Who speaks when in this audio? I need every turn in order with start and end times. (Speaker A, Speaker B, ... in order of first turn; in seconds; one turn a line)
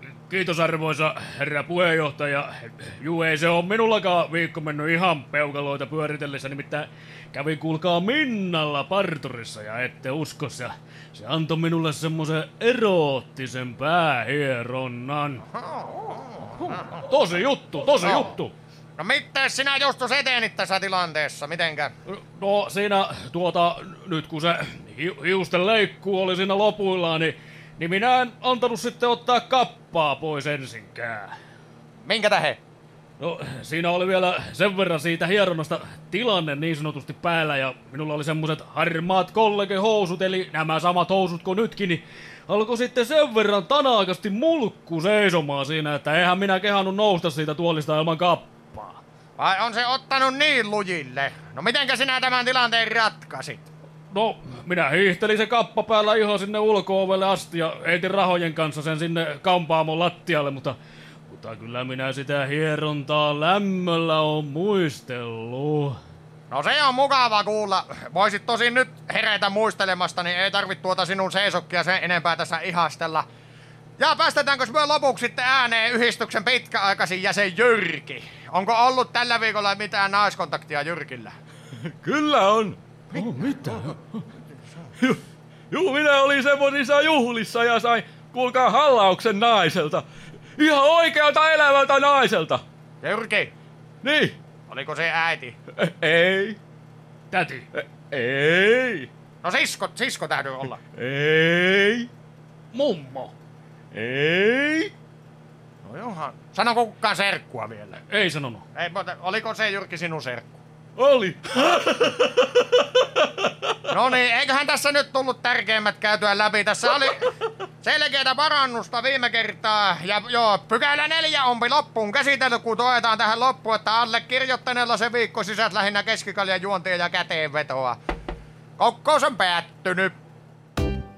Speaker A: 0.3-15.4
Speaker B: 15.6-16.8
Speaker A: 17.1-18.5
Speaker B: 18.0-18.3
Speaker B: 19.0-21.9
Speaker A: 22.1-31.3
Speaker B: 32.0-32.6
Speaker A: 33.2-49.0
Speaker B: 49.4-53.7
Speaker A: 54.1-60.8
Speaker A: 61.3-66.0
Speaker B: 66.5-73.2
Speaker B: 74.0-81.4
Speaker A: 81.9-84.1
Speaker A: 85.7-90.1
Speaker A: 90.6-92.6
Speaker B: 93.0-93.5
Speaker A: 94.0-94.4
Speaker B: 94.7-95.6
Speaker A: 95.8-96.6
Speaker A: 97.3-99.1
Speaker B: 99.4-100.8
Speaker A: 101.0-102.1
Speaker A: 102.7-103.3
Speaker A: 103.9-104.9
Speaker B: 105.8-108.0
Speaker A: 108.1-108.6
Speaker B: 108.8-110.6
Speaker A: 111.0-112.8
Speaker B: 113.9-117.3
Speaker B: 117.8-128.0
Speaker B: 128.8-130.1